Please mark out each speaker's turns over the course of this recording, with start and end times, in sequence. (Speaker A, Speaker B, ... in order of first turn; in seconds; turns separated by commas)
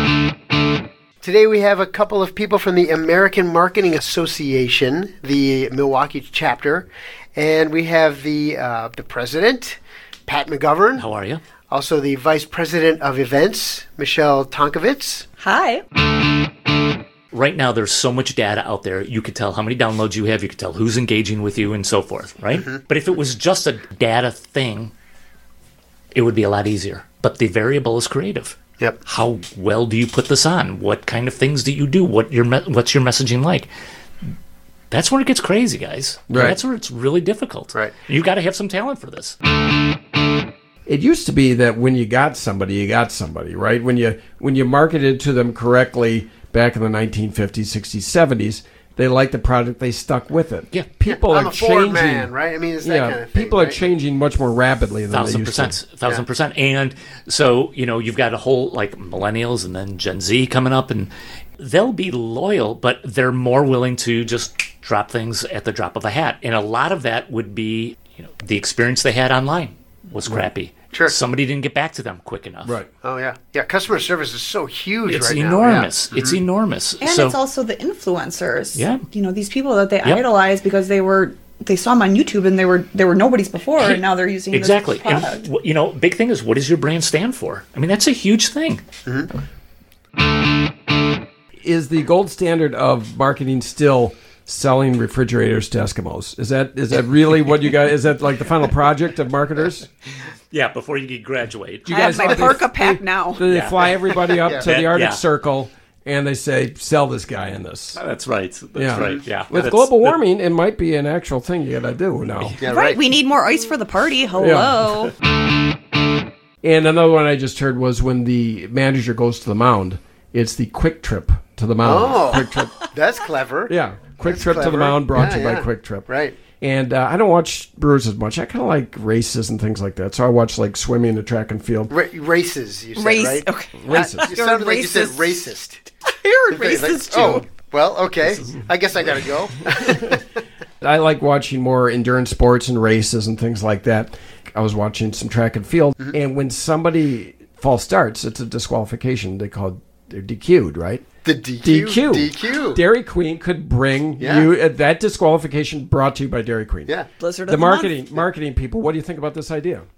Speaker A: 1.2-11.1, Speaker B: 11.0-11.4, Speaker A: 11.7-15.3, Speaker C: 15.4-15.8, Speaker B: 17.3-24.9, Speaker B: 26.1-33.7, Speaker B: 34.9-39.4, Speaker D: 36.3-36.6, Speaker D: 40.9-55.8, Speaker A: 51.0-53.8, Speaker B: 55.1-72.8, Speaker D: 72.6-72.9, Speaker A: 73.0-76.4, Speaker B: 75.1-77.4, Speaker C: 77.0-85.5, Speaker B: 78.8-79.1, Speaker B: 83.8-88.8, Speaker D: 91.6-99.9, Speaker B: 100.5-102.7, Speaker D: 101.9-108.0, Speaker C: 101.9-103.4, Speaker B: 103.5-105.2, Speaker B: 107.9-110.2, Speaker D: 108.8-112.6, Speaker A: 108.9-109.2, Speaker A: 112.6-113.0, Speaker C: 112.7-115.1, Speaker D: 114.4-114.8, Speaker D: 116.6-122.8, Speaker A: 121.8-126.3, Speaker D: 123.7-131.9, Speaker A: 131.9-135.8, Speaker C: 133.0-135.5, Speaker D: 133.8-134.3, Speaker C: 136.1-137.5, Speaker A: 136.5-140.2, Speaker D: 140.8-151.1, Speaker A: 151.2-152.8, Speaker D: 151.6-157.0, Speaker A: 154.2-154.5, Speaker C: 157.2-158.0, Speaker D: 157.5-159.8